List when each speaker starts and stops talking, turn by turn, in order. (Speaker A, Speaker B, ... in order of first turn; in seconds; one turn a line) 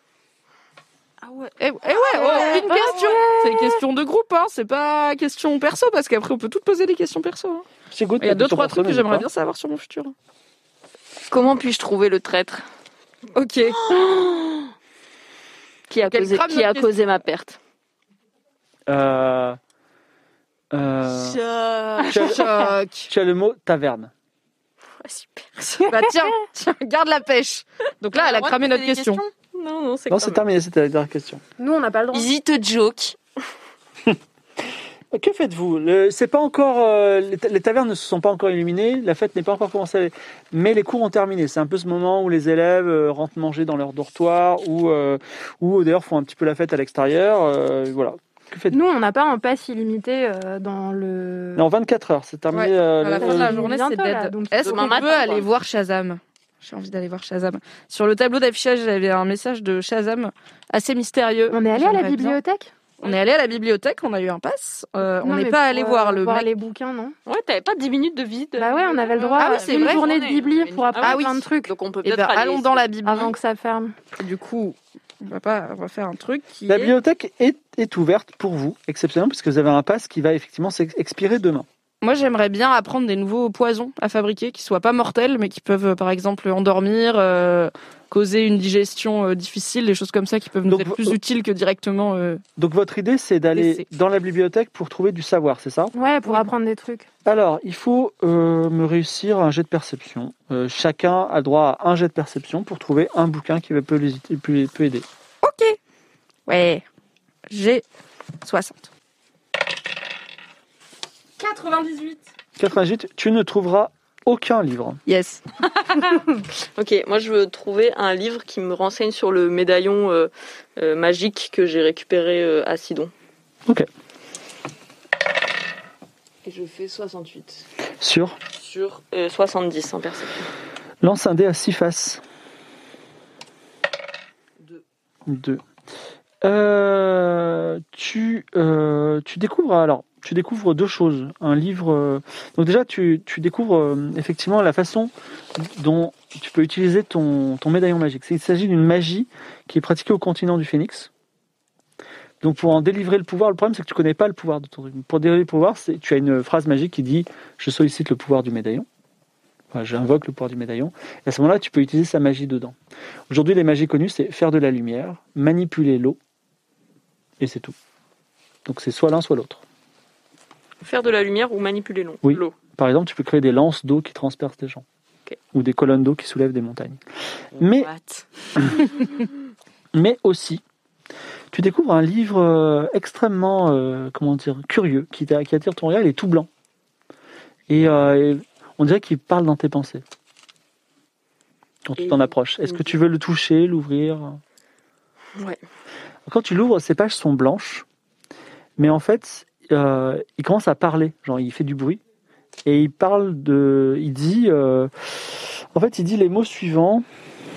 Speaker A: 1.6-7.7
Speaker B: 2.1-3.0
Speaker C: 2.1-3.3
Speaker D: 7.9-9.3
Speaker A: 8.2-10.1
Speaker C: 11.3-12.7
Speaker A: 13.3-13.9
Speaker C: 13.9-14.7
Speaker C: 15.9-17.6
Speaker A: 16.1-16.9
Speaker D: 18.9-19.6
Speaker D: 20.7-21.4
Speaker C: 21.4-22.1
Speaker B: 21.8-22.2
Speaker A: 22.1-23.1
Speaker D: 22.1-24.1
Speaker C: 25.0-25.8
Speaker A: 25.8-29.2
Speaker B: 28.1-29.3
Speaker C: 29.5-30.4
Speaker D: 30.1-31.4
Speaker E: 31.6-32.3
Speaker B: 32.1-33.2
Speaker D: 35.1-48.8
Speaker E: 48.7-51.6
Speaker D: 51.6-53.6
Speaker A: 52.5-62.4
Speaker E: 53.2-55.3
Speaker C: 54.6-55.5
Speaker E: 61.5-62.7
Speaker A: 63.0-66.5
Speaker E: 65.2-67.2
Speaker C: 67.3-69.4
Speaker E: 68.6-71.7
Speaker B: 69.4-71.1
Speaker A: 69.4-70.1
Speaker C: 71.0-72.9
Speaker A: 71.0-71.4
Speaker A: 72.0-73.3
Speaker E: 73.0-74.0
Speaker A: 74.2-77.0
Speaker D: 76.7-81.7
Speaker A: 82.0-92.4
Speaker D: 90.7-91.2
Speaker D: 92.6-95.9
Speaker A: 93.5-93.9
Speaker E: 95.9-97.1
Speaker D: 97.2-105.1
Speaker A: 105.4-105.8
Speaker A: 106.5-106.8
Speaker A: 107.5-107.8
Speaker A: 108.4-108.9
Speaker A: 111.4-112.2
Speaker D: 112.6-115.0
Speaker A: 115.1-115.4
Speaker C: 116.8-123.1
Speaker C: 126.5-127.7
Speaker D: 128.0-128.4
Speaker C: 128.6-130.5
Speaker D: 131.0-132.2
Speaker D: 135.3-135.6
Speaker D: 136.4-151.1
Speaker D: 152.4-158.9
Speaker D: 159.7-162.8
Speaker D: 163.3-166.2
Speaker D: 167.4-167.8
Speaker D: 168.7-169.6
Speaker C: 170.8-172.6
Speaker D: 172.2-174.8
Speaker D: 175.5-177.0
Speaker D: 177.6-177.9
Speaker B: 177.7-178.2
Speaker D: 179.9-180.6
Speaker D: 181.5-186.5
Speaker D: 187.7-190.0
Speaker D: 191.8-194.4
Speaker C: 192.0-192.8
Speaker D: 196.3-197.8
Speaker D: 198.8-202.0
Speaker D: 202.7-207.1